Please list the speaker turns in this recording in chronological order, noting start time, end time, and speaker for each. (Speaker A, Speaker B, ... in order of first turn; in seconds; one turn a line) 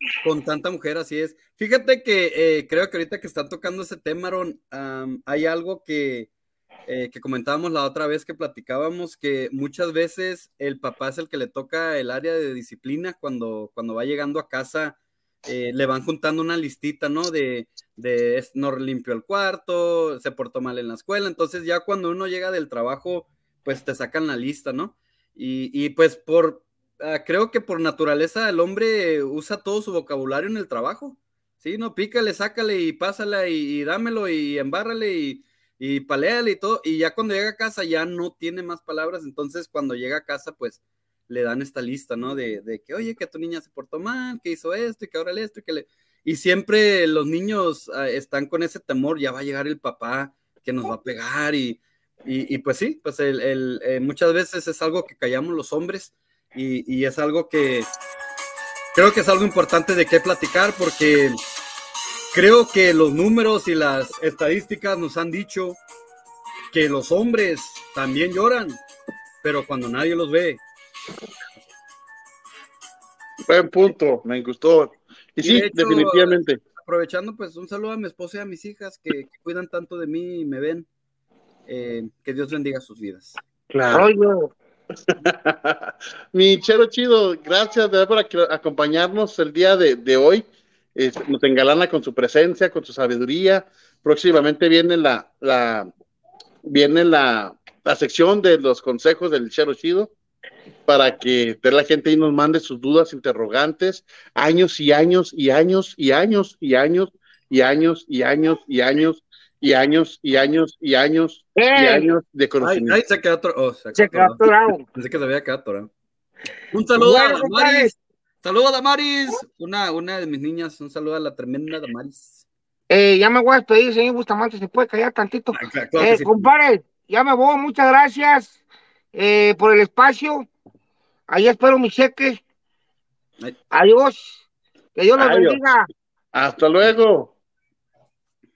Speaker A: 0.2-6.3
Speaker A: 6.8-57.9
Speaker A: 58.9-61.4
Speaker A: 62.3-65.8
Speaker A: 66.7-68.8
Speaker A: 69.4-70.6
Speaker B: 73.5-76.6
Speaker A: 75.4-80.8
Speaker A: 81.7-83.4
Speaker B: 83.7-84.1
Speaker C: 83.9-84.5
Speaker B: 85.1-95.9
Speaker B: 96.6-100.1
Speaker B: 100.9-113.0
Speaker C: 111.5-112.1
Speaker A: 112.6-114.4
Speaker C: 113.9-114.8
Speaker A: 114.9-115.9
Speaker A: 116.7-122.4
Speaker C: 117.0-117.9
Speaker C: 122.9-128.6
Speaker A: 125.5-126.5
Speaker C: 129.1-130.5
Speaker C: 131.3-132.4
Speaker C: 133.7-134.4
Speaker C: 134.9-135.9
Speaker B: 135.2-135.6
Speaker B: 136.3-137.3